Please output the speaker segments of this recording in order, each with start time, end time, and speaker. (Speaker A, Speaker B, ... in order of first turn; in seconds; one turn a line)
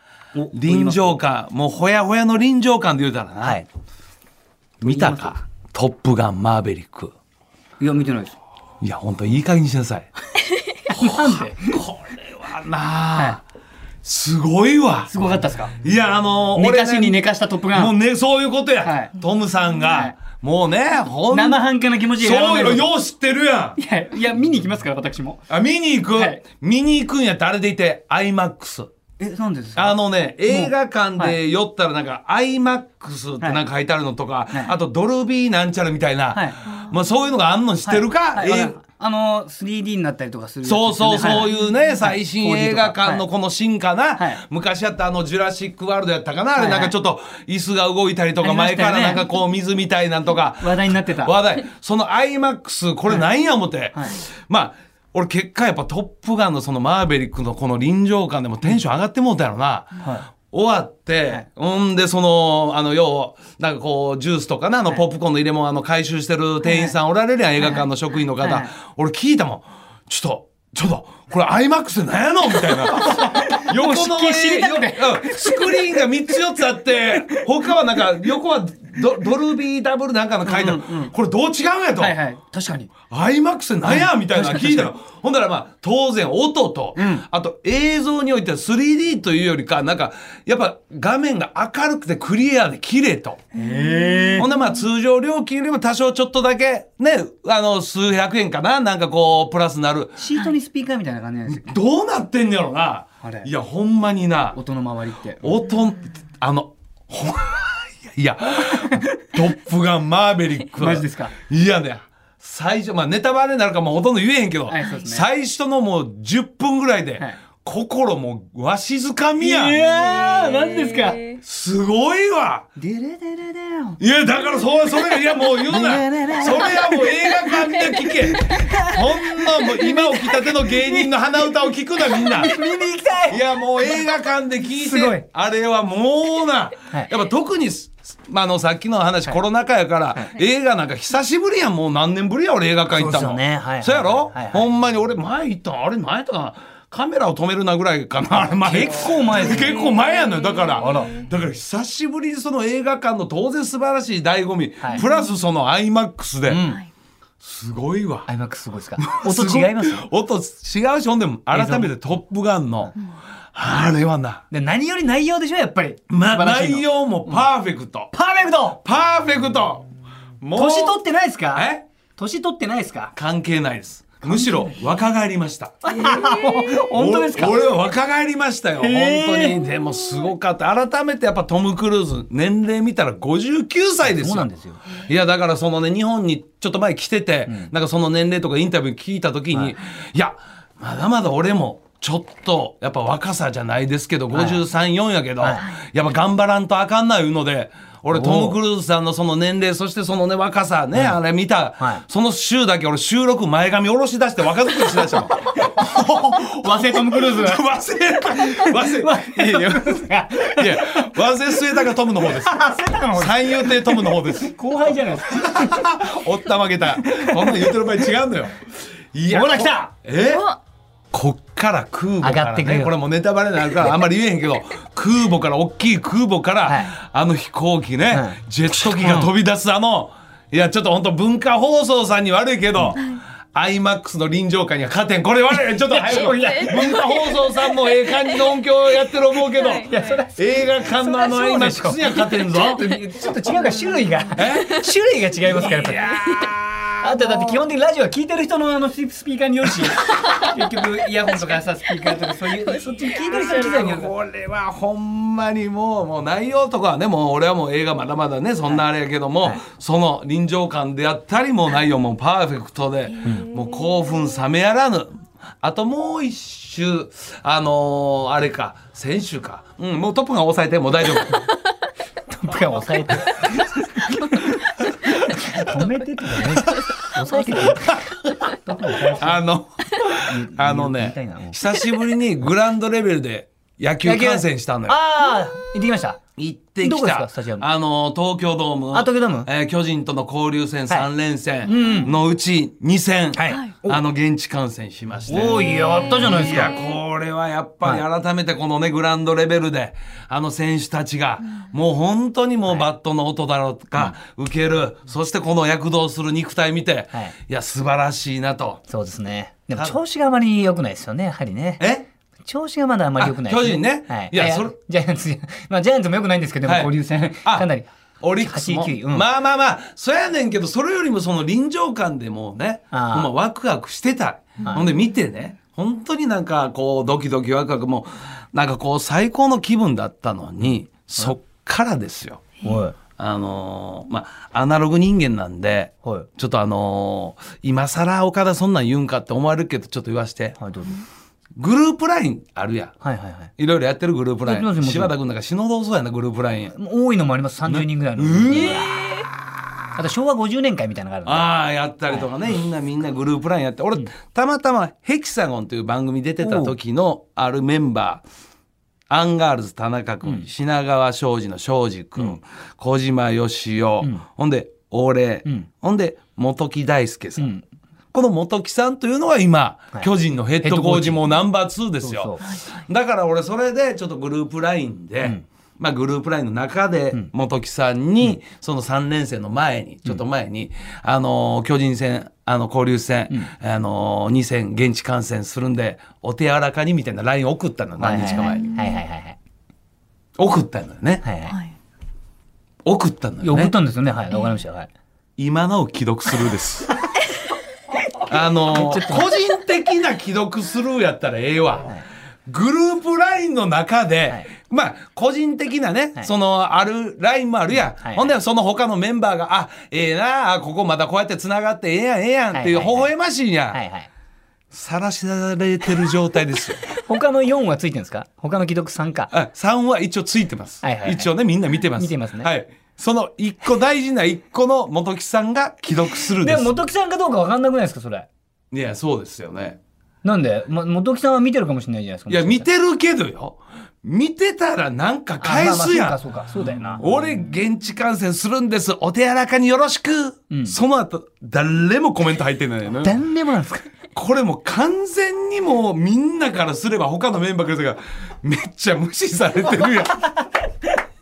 Speaker A: 0.3-1.2
Speaker B: 0.5-3.6
Speaker B: 4.8-7.1
Speaker A: 4.8-5.4
Speaker A: 7.8-8.4
Speaker B: 8.8-10.1
Speaker B: 10.9-13.4
Speaker A: 10.9-11.8
Speaker B: 14.0-15.1
Speaker A: 15.1-15.8
Speaker B: 15.8-17.2
Speaker A: 16.6-17.9
Speaker B: 17.7-21.6
Speaker A: 18.8-19.1
Speaker A: 19.8-20.1
Speaker A: 21.3-22.9
Speaker B: 22.2-23.8
Speaker A: 23.8-25.4
Speaker B: 25.5-28.9
Speaker A: 26.1-26.4
Speaker A: 29.2-31.4
Speaker B: 29.8-38.8
Speaker A: 34.5-34.8
Speaker A: 36.3-36.7
Speaker A: 37.8-43.3
Speaker B: 40.6-82.2
Speaker A: 44.2-44.4
Speaker A: 46.5-46.9
Speaker A: 48.4-49.3
Speaker A: 50.6-51.4
Speaker A: 53.9-54.2
Speaker A: 60.0-60.3
Speaker A: 66.6-66.9
Speaker A: 67.6-68.7
Speaker A: 72.5-76.4
Speaker A: 77.1-77.5
Speaker A: 80.4-81.1
Speaker A: 82.0-82.9
Speaker B: 83.1-93.5
Speaker A: 83.8-84.9
Speaker A: 87.0-87.2
Speaker A: 93.5-94.5
Speaker C: 93.6-94.4
Speaker B: 94.4-100.2
Speaker A: 100.2-101.8
Speaker B: 101.5-104.6
Speaker A: 103.2-103.5
Speaker A: 104.5-105.5
Speaker B: 105.4-119.8
Speaker A: 108.8-109.4
Speaker A: 110.8-111.3
Speaker A: 114.7-115.2
Speaker A: 119.4-121.2
Speaker C: 119.8-121.4
Speaker B: 121.4-122.7
Speaker A: 122.8-124.0
Speaker B: 124.0-132.6
Speaker A: 125.1-131.1
Speaker A: 132.0-134.0
Speaker B: 133.3-156.7
Speaker A: 134.7-135.2
Speaker A: 142.9-144.7
Speaker A: 148.3-150.0
Speaker C: 149.5-151.2
Speaker A: 150.8-151.2
Speaker C: 155.0-155.3
Speaker A: 156.5-156.8
Speaker B: 157.4-158.3
Speaker A: 158.3-160.1
Speaker B: 159.0-163.0
Speaker A: 161.5-161.9
Speaker B: 163.5-164.4
Speaker A: 164.5-167.5
Speaker B: 166.1-168.1
Speaker A: 168.1-168.8
Speaker B: 168.7-169.9
Speaker B: 170.4-171.0
Speaker A: 170.5-173.1
Speaker B: 171.5-171.9
Speaker B: 173.2-175.9
Speaker A: 174.2-174.7
Speaker A: 175.8-177.7
Speaker C: 176.1-176.7
Speaker B: 176.9-214.6
Speaker A: 178.8-179.6
Speaker A: 184.0-184.8
Speaker A: 194.3-194.6
Speaker A: 195.4-195.7
Speaker A: 198.1-198.6
Speaker A: 204.9-205.2
Speaker A: 205.7-207.6
Speaker A: 208.3-211.2
Speaker A: 211.7-216.1
Speaker B: 215.3-220.5
Speaker A: 217.0-218.1
Speaker A: 219.3-219.9
Speaker C: 220.2-220.6
Speaker B: 221.1-233.0
Speaker A: 222.2-223.0
Speaker A: 223.7-224.0
Speaker A: 226.7-226.9
Speaker A: 228.1-229.3
Speaker B: 233.5-242.8
Speaker A: 235.5-237.0
Speaker C: 236.1-238.6
Speaker C: 239.5-240.2
Speaker A: 239.9-246.1
Speaker C: 242.8-244.9
Speaker B: 244.3-244.7
Speaker B: 245.4-247.6
Speaker C: 245.9-246.5
Speaker A: 247.0-254.1
Speaker C: 252.8-253.4
Speaker B: 253.1-271.5
Speaker C: 263.3-264.0
Speaker A: 272.3-279.4
Speaker B: 276.6-277.1
Speaker B: 277.8-278.4
Speaker B: 279.1-285.0
Speaker A: 280.2-281.6
Speaker A: 284.0-286.2
Speaker B: 286.4-308.8
Speaker A: 286.8-287.6
Speaker A: 288.9-289.5
Speaker A: 291.6-292.1
Speaker A: 293.3-294.0
Speaker A: 295.3-296.8
Speaker C: 295.7-296.9
Speaker A: 308.9-311.8
Speaker B: 311.8-312.1
Speaker A: 312.4-319.3
Speaker B: 313.2-314.8
Speaker B: 316.6-316.9
Speaker B: 318.2-332.5
Speaker A: 322.9-323.3
Speaker A: 332.6-332.9
Speaker B: 333.1-340.6
Speaker A: 340.6-341.0
Speaker B: 341.6-342.9
Speaker A: 343.0-343.5
Speaker B: 343.6-346.8
Speaker A: 344.4-345.1
Speaker A: 346.7-349.1
Speaker B: 347.6-348.9
Speaker C: 348.5-349.2
Speaker A: 349.9-351.5
Speaker B: 351.2-358.2
Speaker A: 352.1-352.3
Speaker A: 356.4-356.8
Speaker B: 359.1-367.5
Speaker A: 367.4-367.6
Speaker B: 368.1-388.7
Speaker A: 370.6-371.3
Speaker A: 372.0-372.6
Speaker C: 372.4-372.8
Speaker A: 388.0-389.4
Speaker C: 388.2-389.0
Speaker B: 390.4-391.2
Speaker A: 391.2-391.6
Speaker C: 391.5-391.7
Speaker B: 392.8-393.7
Speaker A: 393.4-394.9
Speaker B: 395.4-397.1
Speaker B: 398.2-401.9
Speaker A: 398.6-399.3
Speaker B: 402.5-413.8
Speaker A: 408.0-408.3
Speaker A: 412.5-413.1
Speaker A: 413.7-414.1
Speaker B: 414.7-416.9
Speaker A: 416.9-419.3
Speaker B: 419.3-426.8
Speaker A: 420.8-421.3
Speaker A: 421.9-422.5
Speaker A: 426.4-428.3
Speaker B: 428.7-429.8
Speaker A: 430.2-432.7
Speaker B: 432.3-436.2
Speaker A: 435.4-437.0
Speaker B: 437.0-443.1
Speaker A: 440.5-440.8
Speaker A: 443.0-443.9
Speaker B: 444.1-450.3